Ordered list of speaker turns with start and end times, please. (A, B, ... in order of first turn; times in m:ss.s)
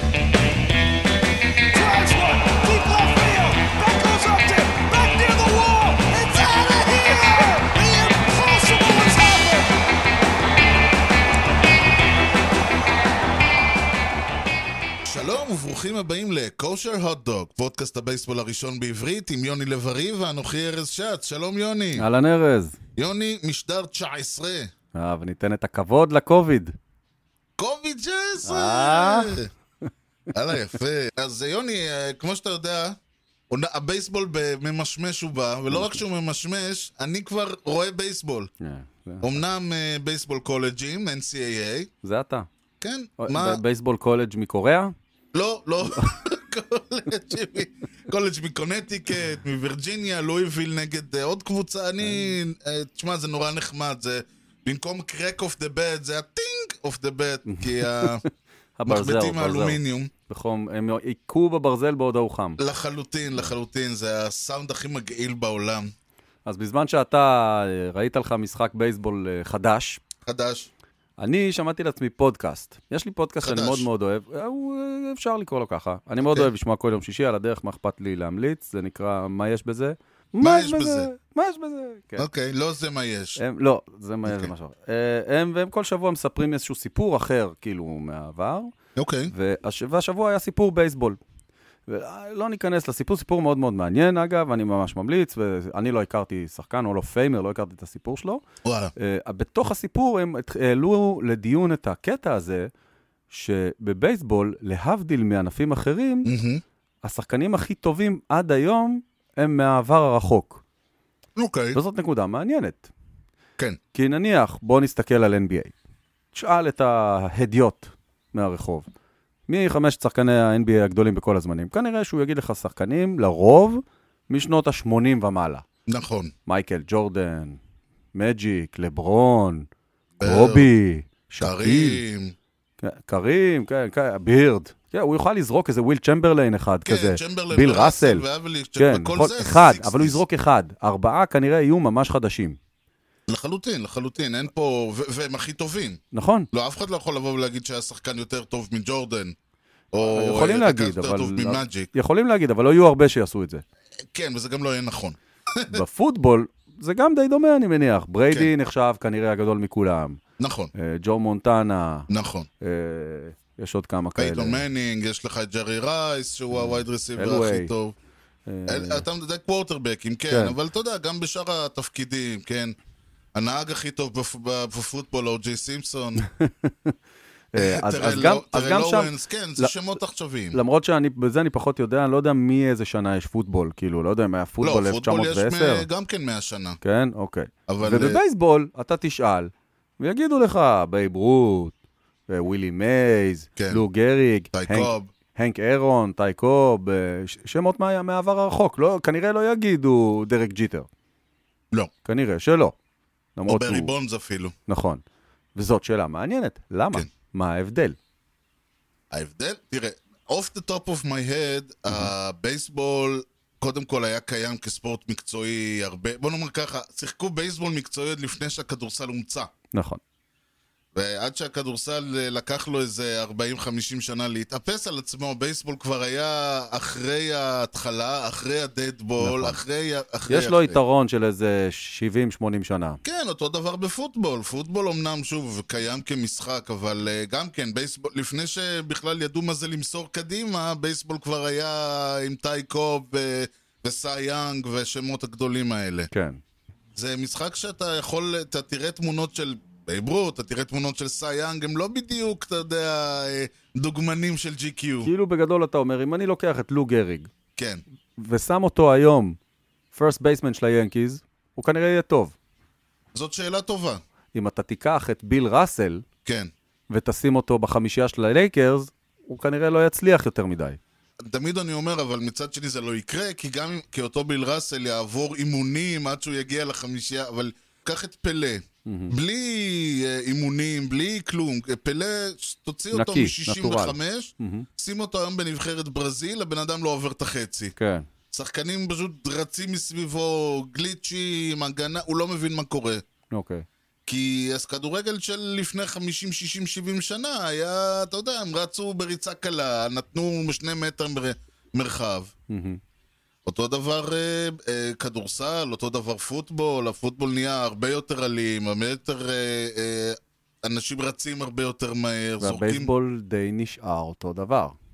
0:01.7-0:09.7 A
0:15.1-0:22.1 B
0:22.0-0:22.8 C
0:23.0-0:24.7 B
0:24.9-0:26.8 C
0:27.6-0:29.5 B
0:28.4-0:29.4 C
0:30.3-0:33.0 B
0:33.5-0:38.5 B
0:35.7-0:36.0 C
0:38.6-0:39.4 C
0:39.2-0:41.9 B
0:42.0-0:42.5 C
0:42.8-0:43.6 B
0:43.2-0:44.9 C
0:45.3-0:58.2 B
0:52.0-0:52.4 C
0:57.5-1:02.6 C
0:58.9-1:00.1 B
1:02.6-1:05.9 B
1:06.4-1:10.0 C
1:10.2-1:10.7 B
1:11.2-1:22.3 C
1:13.4-1:13.9 B
1:16.2-1:16.5 B
1:20.4-1:21.1 B
1:22.2-1:23.4 B
1:23.4-1:28.7 C
1:29.0-1:29.3 B
1:29.3-1:31.2 C
1:31.9-1:38.4 C
1:38.6-1:38.9 B
1:39.0-1:42.7 C
1:43.3-1:46.3 C
1:46.2-1:46.6 B
1:47.0-1:50.6 C
1:51.4-1:51.8 B
1:51.7-1:52.9 C
1:54.0-1:55.7 C
1:56.3-1:58.9 C
1:59.5-2:05.6 C
2:05.9-2:06.3 B
2:06.5-2:07.6 C
2:08.1-2:09.7 C
2:10.2-2:10.7 B
2:10.2-2:12.0 C
2:11.4-2:12.3 B
2:12.8-2:18.2 C
2:16.8-2:20.2 B
2:18.8-2:22.6 C
2:23.3-2:26.0 B
2:26.1-2:26.5 C
2:26.5-2:29.4 B
2:29.9-2:31.9 B
2:30.0-2:33.6 C
2:34.1-2:35.8 B
2:35.7-2:40.2 C
2:40.4-2:40.7 B
2:40.8-2:42.1 C
2:42.1-2:42.5 B
2:42.6-2:44.6 C
2:44.2-2:48.0 B
2:46.5-2:47.7 C
2:48.5-2:49.1 C
2:48.7-2:52.8 B
2:50.3-2:50.6 C
2:53.4-2:56.2 B
2:56.2-2:57.0 C
2:57.5-2:59.8 C
2:57.6-3:00.6 B
3:00.5-3:05.9 C
3:04.6-3:06.8 B
3:06.8-3:11.7 C
3:07.7-3:08.2 B
3:12.3-3:20.9 C
3:13.6-3:13.8 B
3:14.5-3:15.1 B
3:22.0-3:22.8 C
3:23.4-3:23.9 C
3:23.5-3:24.5 B
3:24.7-3:25.0 C
3:25.6-3:28.0 C
3:29.1-3:39.5 B
3:39.7-3:40.0 C
3:41.0-3:50.8 B
3:49.2-3:49.6 C
3:50.3-3:53.0 C
3:53.0-4:06.1 B
4:06.1-4:06.4 C
4:07.0-4:15.1 B
4:15.0-4:17.3 C
4:17.6-4:17.8 B
4:18.2-4:19.4 C
4:19.9-4:22.4 C
4:23.1-4:24.0 B
4:24.3-4:26.0 C
4:26.2-4:26.5 B
4:26.9-4:30.8 C
4:31.2-4:47.7 B
4:38.9-4:39.2 C
4:42.9-4:44.7 C
4:47.8-4:48.1 C
4:48.3-4:53.0 B
4:53.3-4:53.7 C
4:54.1-5:02.3 B
5:02.5-5:02.8 C
5:03.5-5:12.9 B
5:12.4-5:14.8 C